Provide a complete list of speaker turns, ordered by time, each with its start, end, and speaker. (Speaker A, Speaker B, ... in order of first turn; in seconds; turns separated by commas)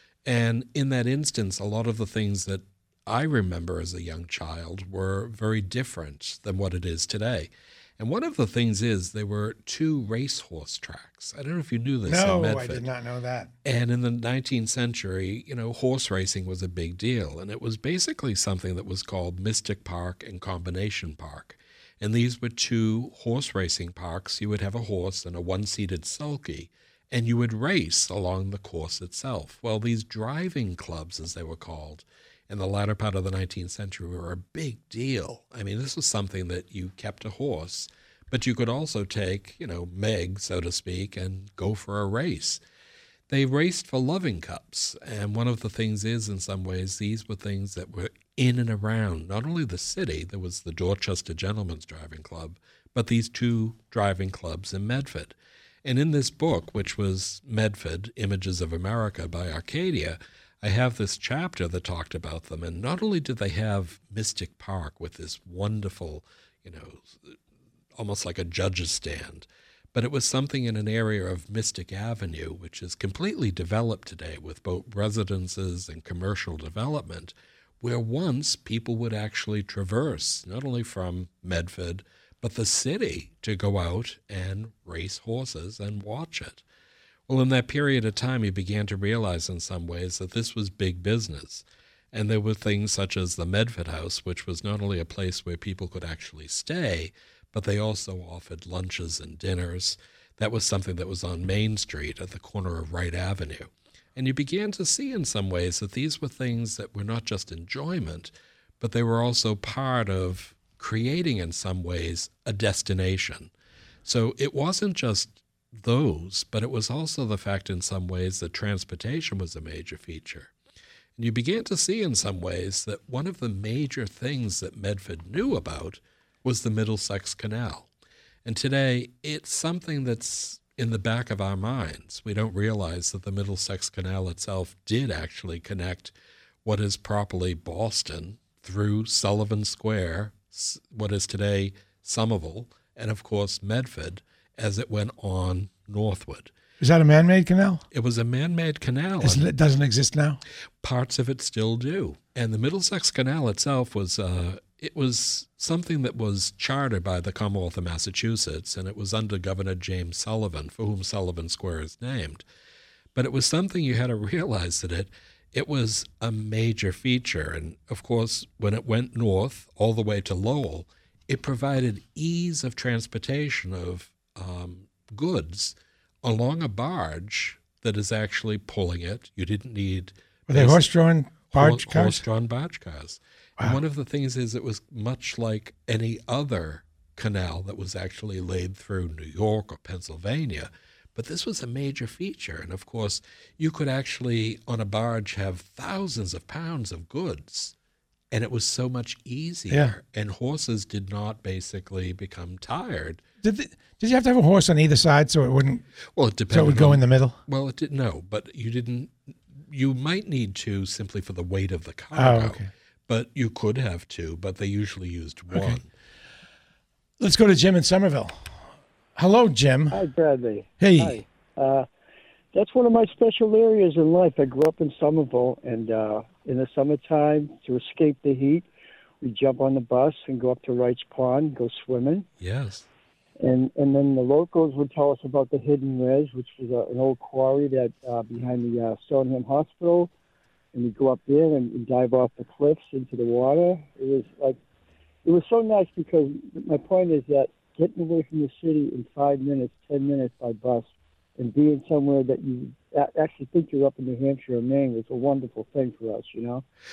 Speaker A: 0.2-12.8, Speaker B: 12.1-13.5, Speaker A: 13.6-42.6, Speaker A: 43.3-67.4, Speaker A: 68.0-86.6, Speaker A: 87.3-113.5, Speaker A: 114.0-120.5, Speaker A: 121.2-127.9, Speaker A: 128.4-136.1, Speaker A: 136.6-146.5, Speaker B: 146.8-147.8, Speaker A: 147.9-149.5, Speaker B: 149.2-150.4, Speaker A: 150.8-162.4, Speaker A: 163.1-180.9, Speaker B: 180.5-182.2, Speaker A: 181.5-197.7, Speaker A: 198.3-203.2, Speaker B: 199.7-199.9, Speaker B: 203.4-205.8, Speaker A: 206.2-215.9, Speaker B: 206.5-207.4, Speaker B: 212.1-212.7, Speaker B: 215.5-215.8, Speaker B: 217.2-218.6, Speaker B: 219.2-220.0, Speaker C: 219.9-221.9, Speaker B: 220.8-221.2, Speaker C: 222.5-228.6, Speaker C: 229.2-232.3, Speaker A: 232.4-232.9, Speaker C: 233.4-240.1, Speaker C: 240.7-244.6, Speaker C: 245.2-256.6